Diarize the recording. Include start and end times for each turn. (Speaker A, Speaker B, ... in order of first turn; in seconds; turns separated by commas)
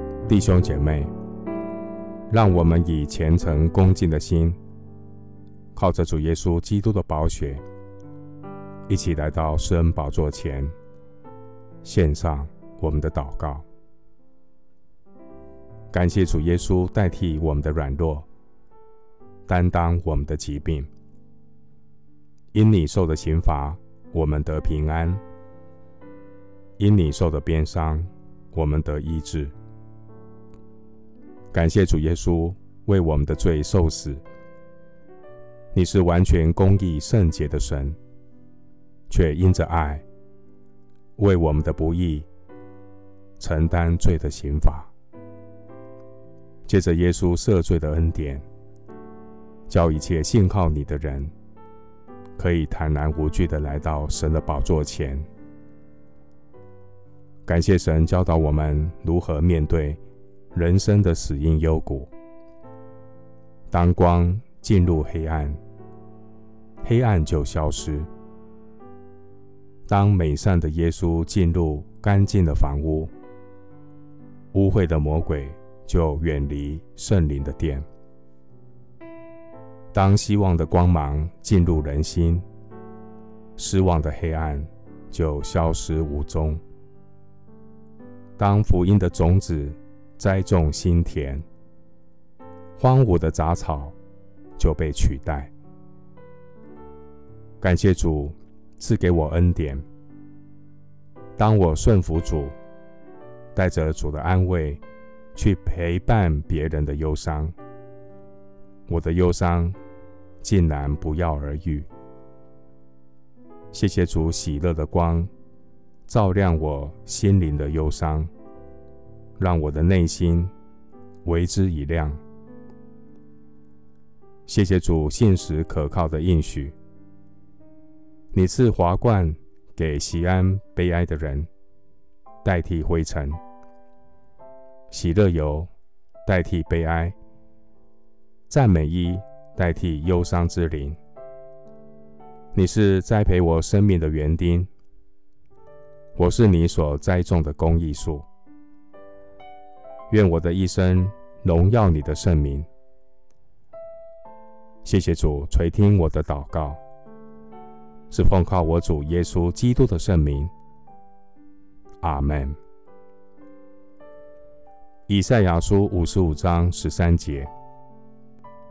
Speaker A: 0.3-1.1, Speaker A: 2.3-4.6, Speaker A: 5.7-7.6, Speaker A: 8.9-10.7, Speaker A: 11.8-13.7, Speaker A: 15.9-18.3, Speaker A: 19.5-20.9, Speaker A: 22.5-25.2, Speaker A: 26.8-29.5, Speaker A: 31.5-34.2, Speaker A: 35.7-38.0, Speaker A: 39.1-40.0, Speaker A: 41.2-42.3, Speaker A: 43.4-44.9, Speaker A: 46.6-48.4, Speaker A: 49.7-51.3, Speaker A: 52.4-55.3, Speaker A: 57.5-60.0, Speaker A: 60.5-62.1, Speaker A: 63.7-65.6, Speaker A: 66.8-68.1, Speaker A: 69.9-73.1, Speaker A: 74.5-77.8, Speaker A: 79.9-82.4, Speaker A: 83.6-86.6, Speaker A: 88.4-91.4, Speaker A: 92.8-94.0, Speaker A: 94.6-95.5, Speaker A: 97.6-99.8, Speaker A: 101.4-102.5, Speaker A: 103.5-104.8, Speaker A: 105.3-107.5, Speaker A: 108.9-109.8, Speaker A: 110.4-111.9, Speaker A: 113.7-115.3, Speaker A: 116.1-118.3, Speaker A: 119.4-120.5, Speaker A: 121.2-122.2, Speaker A: 124.5-126.8, Speaker A: 128.3-131.5, Speaker A: 132.4-133.4, Speaker A: 134.9-135.7, Speaker A: 136.2-137.2, Speaker A: 138.5-141.0, Speaker A: 142.5-144.7, Speaker A: 146.2-148.3, Speaker A: 150.1-152.7, Speaker A: 154.8-156.8, Speaker A: 158.1-160.5, Speaker A: 162.0-162.6, Speaker A: 165.1-167.5